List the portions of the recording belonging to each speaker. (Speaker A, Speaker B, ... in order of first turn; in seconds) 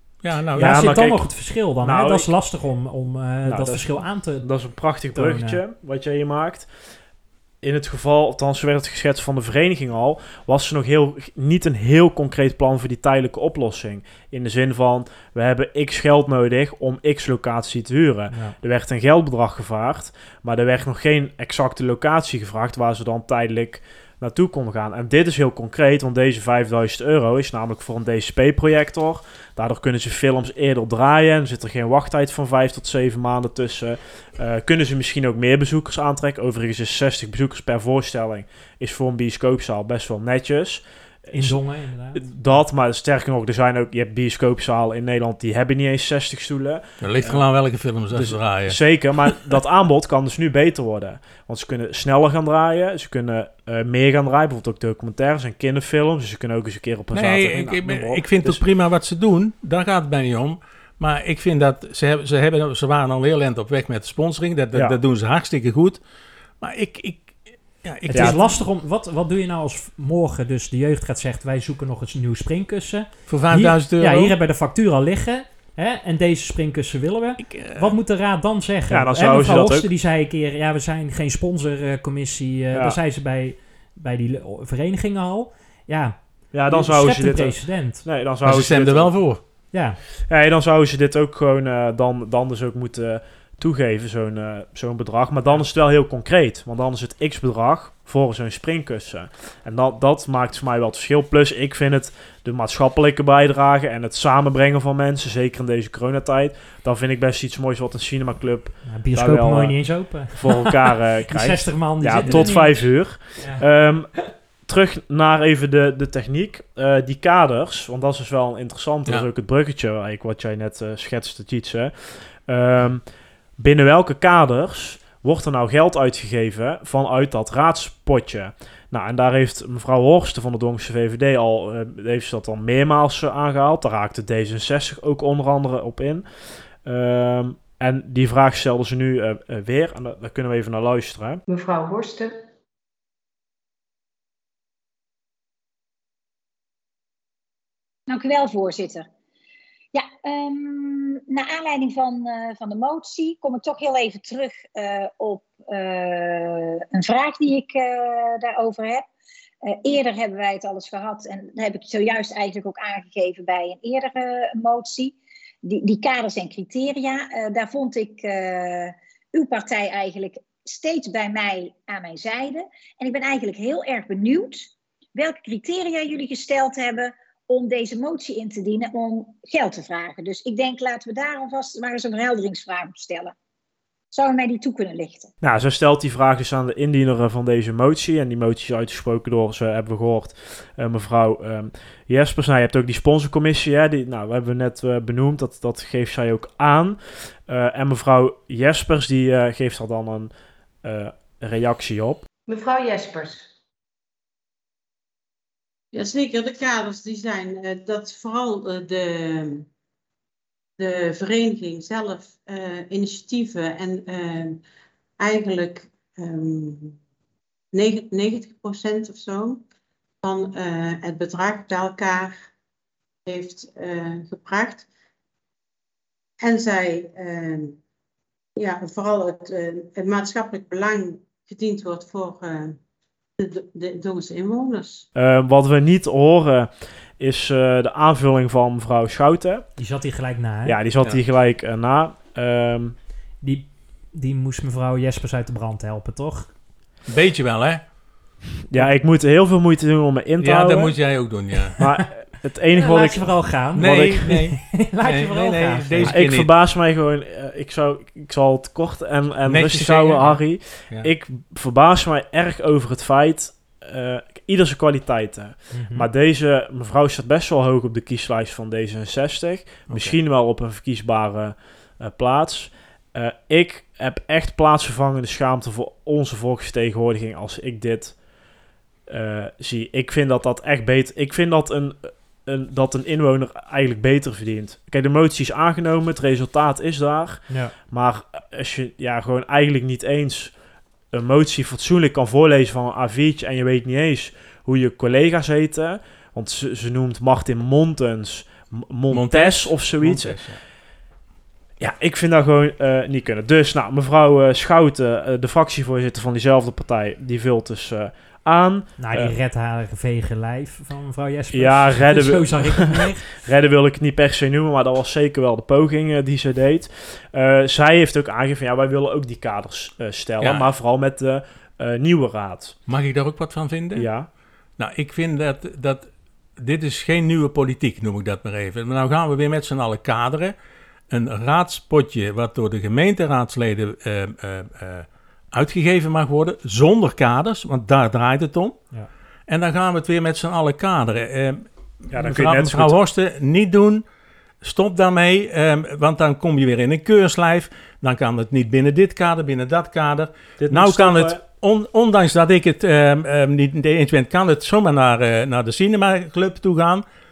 Speaker A: 0.2-0.9, 47.0-48.8, 57.1-66.0, 66.6-68.5, 73.3-74.3, 77.4-77.9, 88.4-89.4, 247.1-247.9, 250.4-251.8, 253.7-256.5, 259.4-261.1, 269.9-270.1, 299.1-300.6, 320.4-320.7, 322.9-324.1, 324.8-330.5, 331.1-338.8, 339.5-344.0, 344.6-357.0
Speaker B: 0.6-2.3, 3.4-6.7, 7.6-41.6, 42.1-47.4, 48.1-58.6, 64.7-65.0, 68.1-68.4, 78.9-79.9, 86.5-89.3, 90.3-123.0, 123.6-136.2, 136.8-141.4, 185.4-200.3, 200.8-202.2, 235.1-239.7, 240.6-242.9, 248.7-251.3, 251.8-254.3, 256.0-278.2, 279.1-290.6, 291.1-300.5, 301.8-309.4, 311.5-322.8, 323.9-324.3, 342.1-343.0, 350.6-351.4
Speaker C: 0.6-4.5, 5.0-5.6, 18.3-18.6, 41.3-42.3, 68.1-88.0, 89.7-90.0, 108.8-110.7, 111.3-113.6, 239.8-240.8, 243.4-246.5, 252.7-256.1, 265.7-266.1, 287.5-287.7, 309.0-313.4
Speaker D: 141.5-142.3, 202.5-203.5
Speaker E: 148.1-149.1, 149.9-159.1, 159.7-183.3, 184.1-185.3
Speaker F: 205.9-209.7, 210.8-214.6, 215.2-217.0, 217.7-219.6, 220.2-222.4, 223.2-224.9, 226.4-227.8, 228.6-232.8, 233.4-235.1